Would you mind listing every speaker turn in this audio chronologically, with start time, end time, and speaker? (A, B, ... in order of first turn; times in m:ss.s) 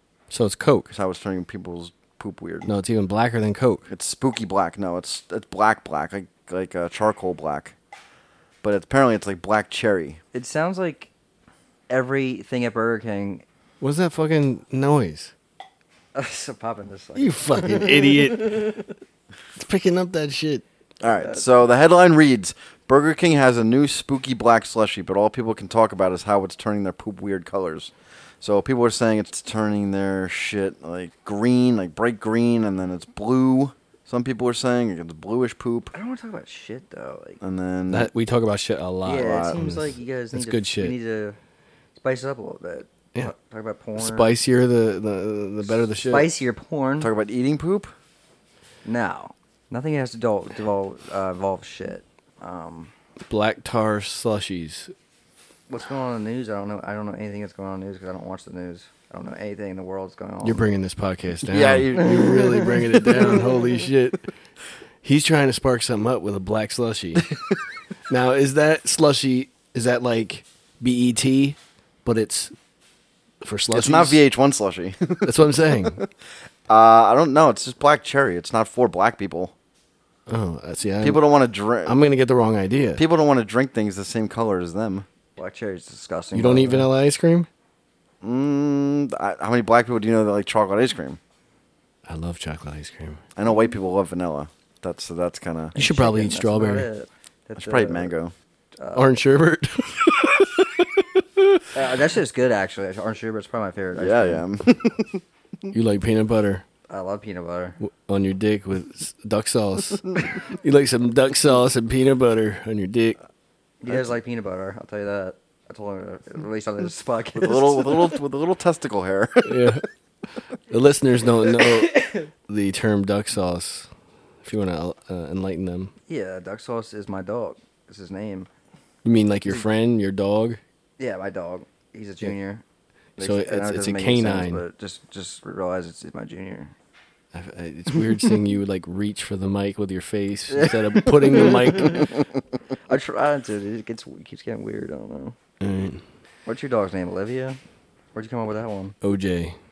0:00.3-0:00.9 A
0:00.9-0:02.7 B
0:02.6-0:03.9 A
0:03.9-0:07.7 B
0:08.6-0:10.2 B
0:10.3-0:11.1 C
0:11.9-0:13.4 C
0:13.8-0:15.3 A
0:16.2-0:18.9 C
0:17.2-0:18.7 A
0:19.6-0:20.6 A
0:21.0-0:35.9 B
0:21.2-0:21.5 C
0:35.9-0:37.4 C
0:37.4-0:38.1 B
0:37.9-0:41.0 A
0:39.0-0:41.4 C
0:39.1-0:39.6 B
0:42.0-0:44.4 C
0:44.0-0:46.3 A
0:45.6-0:47.1 C
0:47.0-0:47.9 B
0:48.8-0:52.9 C
0:53.3-0:54.9 A
0:55.7-1:00.7 C
1:00.4-1:04.3 A
1:01.5-1:02.4 B
1:02.1-1:03.3 C
1:05.0-1:07.4 A
1:08.1-1:12.5 A
1:13.4-1:14.2 A
1:13.7-1:16.1 B
1:15.2-1:16.0 A
1:16.7-1:19.5 B
1:20.3-1:21.2 A
1:21.0-1:22.0 B
1:21.8-1:23.0 A
1:23.0-1:25.1 B
1:25.4-1:26.9 C
1:26.3-1:27.5 A
1:28.2-1:31.2 B
1:32.1-1:33.2 A
1:33.4-1:35.8 B
1:35.7-1:38.1 C
1:35.8-1:36.9 A
1:37.6-1:38.3 B
1:38.8-1:39.1 C
1:39.0-1:41.6 A
1:41.7-1:44.4 C
1:44.0-1:45.2 B
1:45.7-1:46.6 A
1:46.9-1:47.8 C
1:47.8-1:53.2 A
1:53.8-1:58.2 C
1:57.3-1:59.8 B
1:59.4-1:59.8 A
2:00.7-2:03.9 A
2:04.4-2:05.9 A
2:06.1-2:08.5 C
2:09.0-2:10.6 A
2:11.0-2:12.6 C
2:13.2-2:16.7 C
2:13.2-2:14.6 A
2:17.3-2:22.1 A
2:20.5-2:22.2 C
2:22.9-2:25.4 C
2:25.6-2:26.0 A
2:26.5-2:27.6 C
2:28.1-2:29.0 C
2:29.0-2:29.6 A